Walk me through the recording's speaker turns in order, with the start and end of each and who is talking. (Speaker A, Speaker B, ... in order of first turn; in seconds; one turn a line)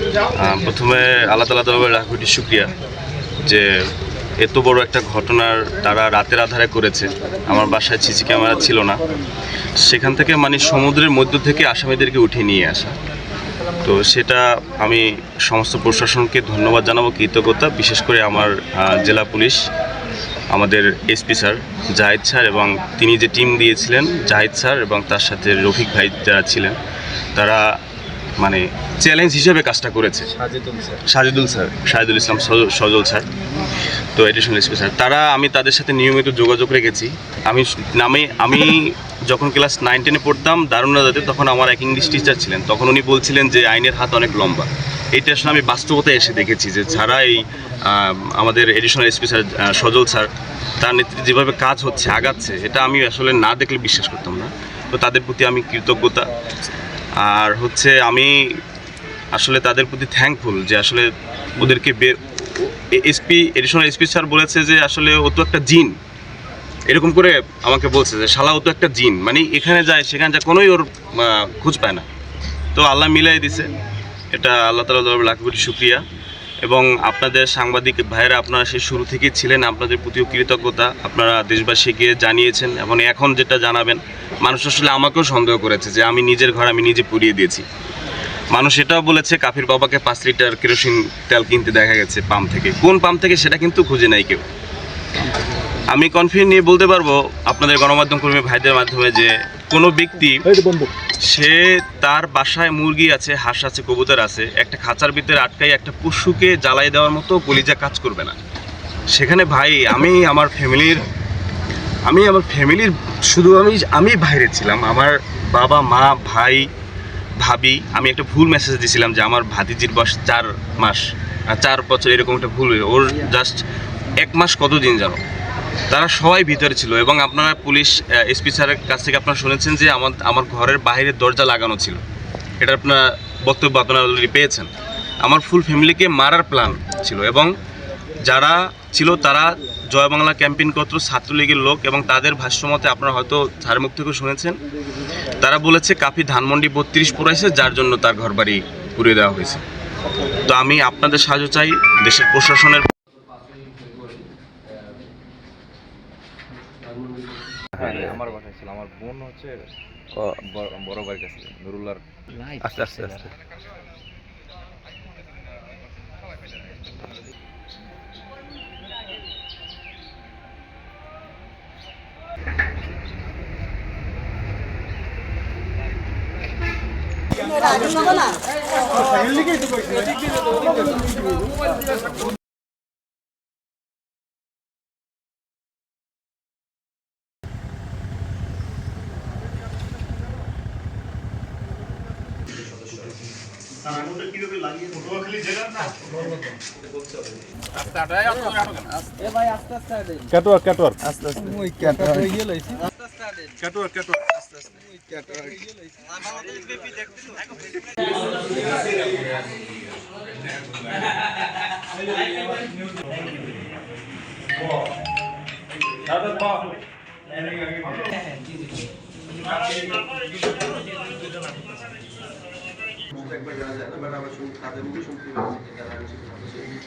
Speaker A: 0.3-2.7
Speaker A: 3.4-3.7
Speaker A: 4.4-9.0
Speaker A: 9.8-12.9
Speaker A: 13.8-19.7
Speaker A: 20.5-26.8
Speaker A: 27.4-27.6
Speaker A: 28.4-30.3
Speaker B: 30.3-31.0
Speaker A: 31.1-33.2
Speaker A: 34.1-56.3
Speaker A: 57.2-58.4
Speaker A: 59.3-66.0
Speaker A: 66.9-72.1
Speaker A: 72.8-73.7
Speaker A: 74.3-76.0
Speaker A: 76.6-87.7
Speaker A: 88.5-94.4
Speaker A: 95.9-100.5
Speaker C: 100.5-100.9
Speaker A: 101.2-108.4
Speaker A: 109.1-111.1
Speaker A: 112.1-116.7
Speaker A: 117.4-123.6
Speaker A: 124.2-125.2
Speaker A: 125.9-132.0
Speaker A: 132.6-134.7
Speaker A: 135.2-137.6
Speaker A: 138.2-144.6
Speaker A: 145.4-149.6
Speaker A: 150.5-152.9
Speaker B: 157.8-163.3
Speaker A: 193.8-196.0
Speaker C: 195.8-196.3
Speaker C: 197.8-202.8
Speaker A: 198.3-198.8
Speaker B: 201.3-202.0
Speaker C: 203.4-205.6
Speaker C: 216.1-216.8
Speaker C: 217.5-218.1
Speaker C: 223.2-226.6